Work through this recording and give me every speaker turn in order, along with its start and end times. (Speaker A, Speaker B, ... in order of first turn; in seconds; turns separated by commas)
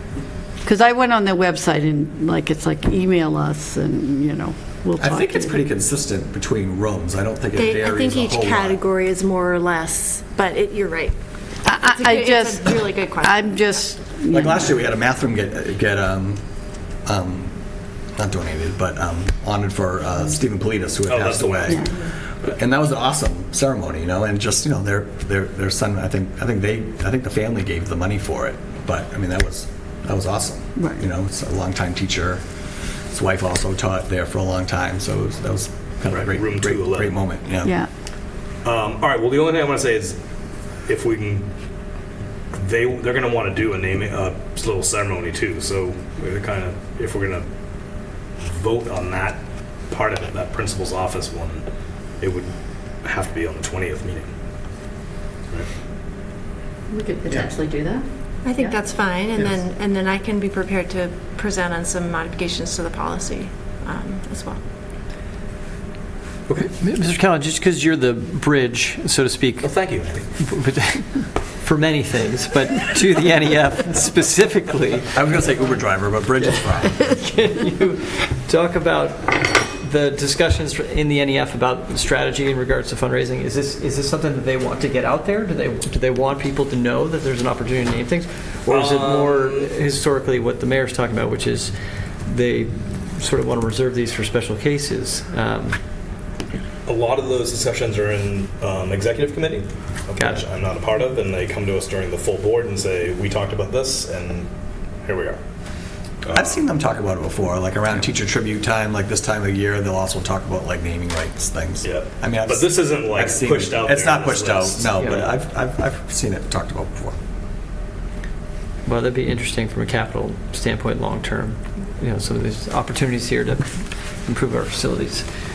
Speaker A: 0.6-5.6, Speaker B: 5.0-8.8, Speaker C: 7.5-13.6, Speaker A: 11.6-14.8, Speaker B: 14.3-16.4, Speaker B: 17.0-32.4, Speaker D: 21.1-21.9, Speaker A: 30.8-31.0, Speaker B: 33.1-37.8, Speaker D: 36.0-37.2, Speaker A: 37.6-37.9, Speaker D: 38.6-40.2, Speaker D: 40.9-41.5, Speaker D: 42.5-47.5, Speaker D: 48.4-51.6, Speaker D: 52.2-54.3, Speaker E: 56.9-58.8, Speaker C: 58.5-64.6, Speaker F: 66.5-69.8, Speaker D: 69.6-70.3, Speaker F: 70.4-75.1, Speaker B: 75.1-77.0, Speaker F: 76.8-91.8, Speaker D: 88.7-89.7, Speaker F: 92.3-95.9, Speaker D: 96.8-104.5, Speaker F: 100.2-100.5, Speaker D: 105.0-105.4, Speaker D: 106.2-106.6, Speaker B: 106.3-117.2, Speaker D: 111.8-115.0, Speaker F: 115.0-115.3, Speaker F: 118.9-125.3